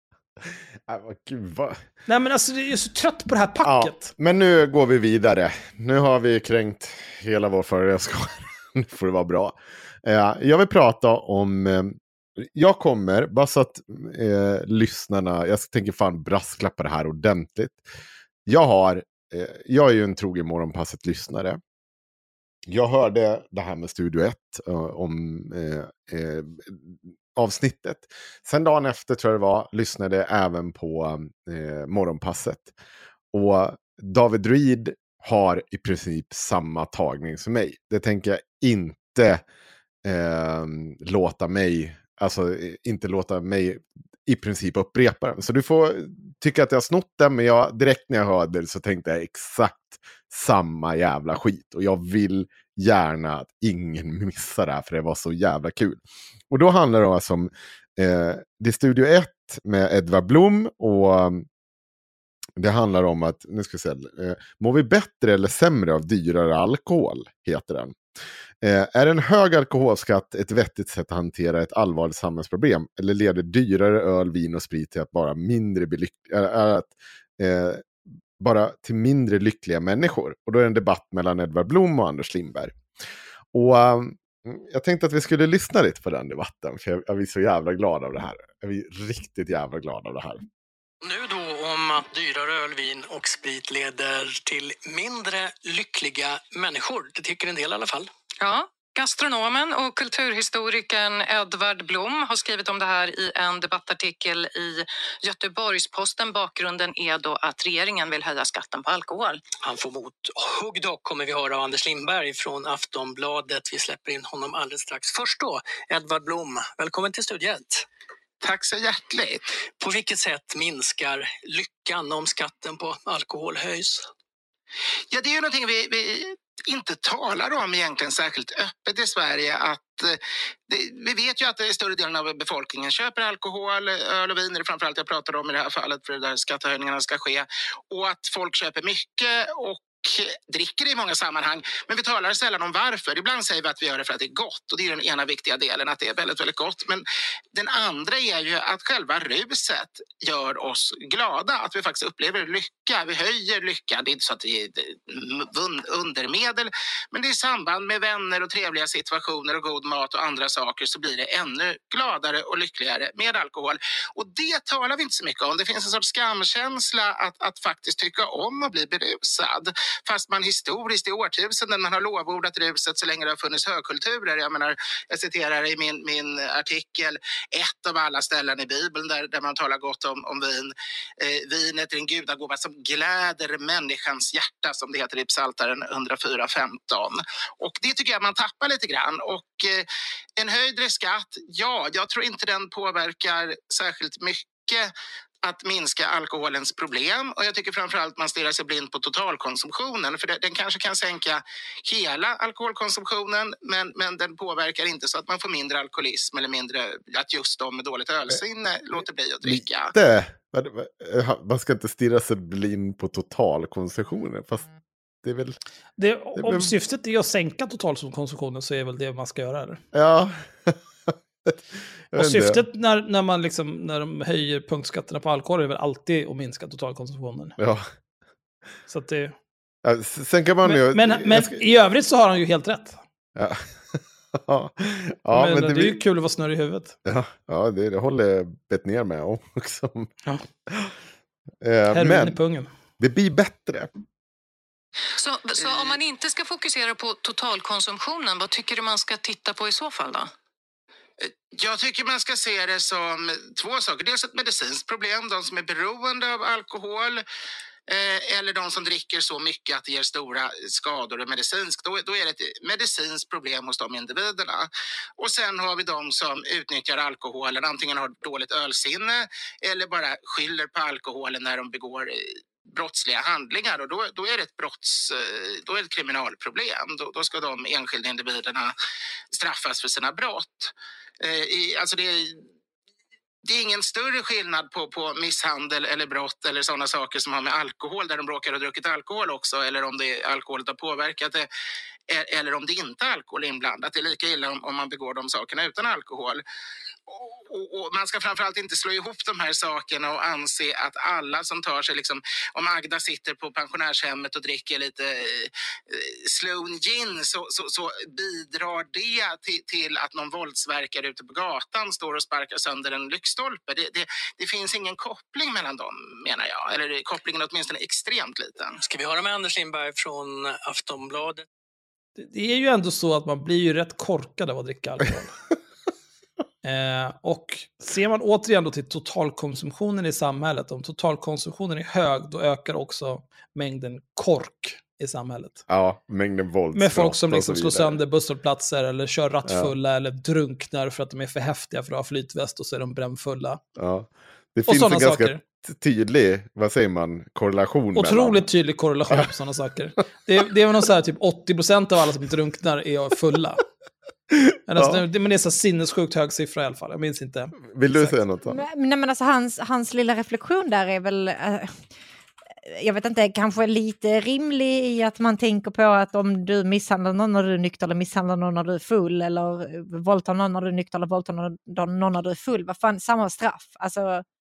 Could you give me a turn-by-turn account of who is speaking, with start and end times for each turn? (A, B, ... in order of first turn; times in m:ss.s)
0:00.4-0:01.8 A
0:02.1-0:04.1 B
0:03.6-0:17.8 A
0:18.4-0:21.6 A
0:22.7-0:32.7 A
0:33.3-0:39.4 A
0:40.0-1:01.4 A
1:02.6-1:08.0 A
1:08.6-1:22.7 A
1:23.5-1:30.4 A
1:31.0-1:38.1 C
1:38.4-1:49.4 D
1:49.6-1:57.8 C
1:58.4-1:59.4 E
1:59.8-2:04.1 C
2:05.1-3:09.8 E
3:10.4-3:14.9 E
3:15.4-3:29.9 E
3:29.4-3:34.7 A
3:35.2-3:35.6 A
3:36.0-3:39.8 B
3:36.4-3:36.7 A
3:39.9-3:40.8 A
3:42.1-3:42.6 A
3:42.1-3:47.6 B
3:47.6-3:47.9 A
3:48.9-3:49.3 B
3:49.8-3:51.6 A
3:50.6-3:53.0 B
3:53.4-3:56.0 A
3:55.3-3:57.0 B
3:57.0-4:00.1 A
4:01.6-4:02.4 A
4:01.9-4:02.7 B
4:03.0-4:03.9 A
4:05.2-4:10.3 D
4:05.6-4:05.9 E
4:11.2-4:17.2 E
4:17.9-4:38.7 E
4:39.3-4:42.4 E
4:43.4-4:51.5 E
4:52.1-4:56.4 E
4:57.1-5:18.8 E
5:18.8-5:21.4 C
5:22.2-5:25.3 B
5:26.6-5:35.6 B
5:35.7-5:38.0 A
5:36.7-5:43.6 B
5:39.4-5:39.7 A
5:43.8-5:48.4 A
5:44.7-5:45.4 B
5:48.0-5:53.6 B
5:54.7-5:58.2 B
5:54.7-5:55.0 A
5:57.7-5:58.6 A
5:58.5-6:01.7 F
6:02.7-6:14.2 F